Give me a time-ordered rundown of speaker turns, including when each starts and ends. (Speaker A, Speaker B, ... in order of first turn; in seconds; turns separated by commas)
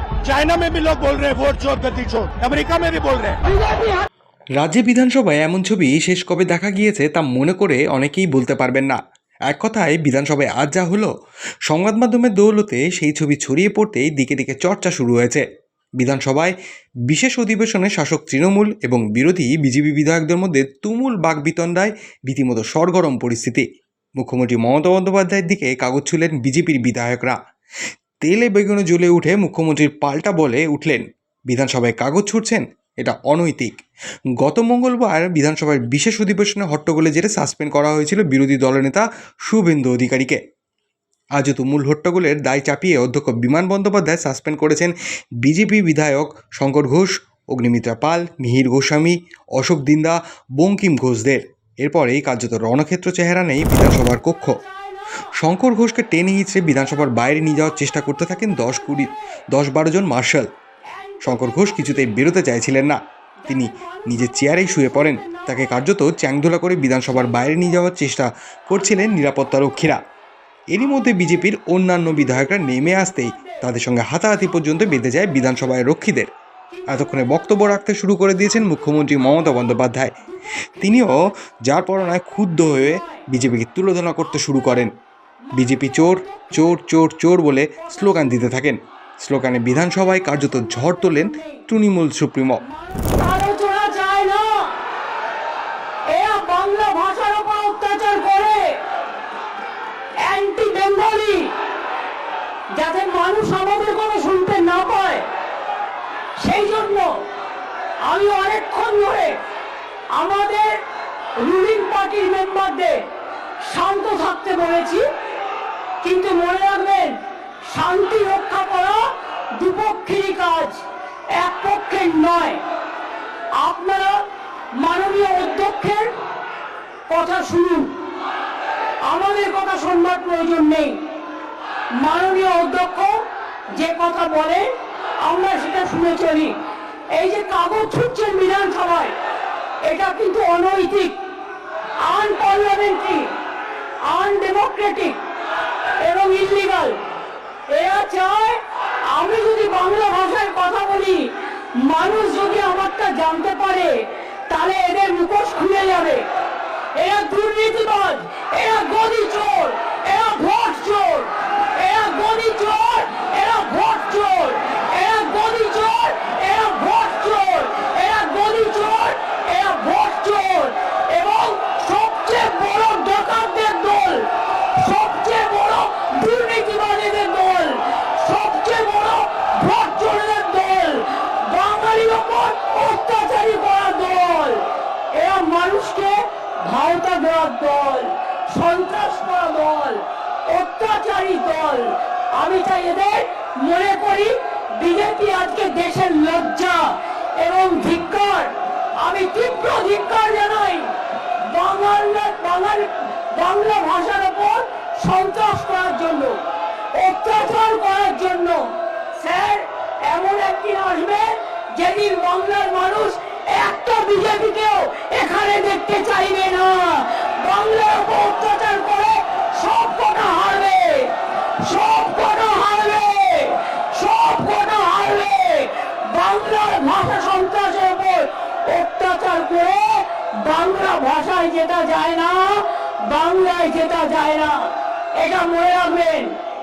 Speaker A: 0.2-3.8, Speaker B: 4.6-11.1, Speaker B: 11.7-15.4, Speaker B: 16.0-16.5, Speaker B: 17.1-23.6, Speaker B: 24.2-27.4, Speaker B: 28.2-33.7, Speaker B: 34.4-40.4, Speaker B: 41.4-54.6, Speaker C: 54.6-55.2, Speaker B: 55.3-60.5, Speaker C: 58.2-59.1, Speaker C: 60.9-62.3, Speaker B: 61.2-70.0, Speaker C: 63.4-65.8, Speaker B: 70.7-76.3, Speaker C: 72.4-73.7, Speaker C: 76.7-77.7, Speaker B: 76.9-80.2, Speaker C: 80.5-81.2, Speaker B: 80.7-84.9, Speaker C: 82.5-83.2, Speaker C: 85.5-86.5, Speaker B: 85.5-92.6, Speaker C: 90.8-91.6, Speaker C: 92.6-94.7, Speaker C: 96.1-98.7, Speaker C: 100.2-101.5, Speaker C: 102.8-105.2, Speaker C: 106.4-107.1, Speaker C: 108.0-109.3, Speaker C: 110.1-110.8, Speaker C: 111.4-113.0, Speaker C: 113.7-115.0, Speaker C: 116.0-119.0, Speaker C: 119.5-120.8, Speaker C: 121.4-122.6, Speaker C: 123.6-124.2, Speaker C: 124.7-126.1, Speaker C: 127.1-127.9, Speaker C: 129.1-131.0, Speaker C: 131.9-133.2, Speaker C: 133.7-134.6, Speaker C: 135.2-136.5, Speaker C: 137.1-139.1, Speaker C: 139.9-141.2, Speaker C: 142.0-143.3, Speaker C: 144.0-145.2, Speaker C: 146.0-146.9, Speaker C: 147.7-151.3, Speaker C: 151.8-153.9, Speaker C: 154.5-156.2, Speaker C: 156.9-200.9, Speaker C: 201.5-206.4, Speaker C: 206.9-208.6, Speaker C: 209.2-236.3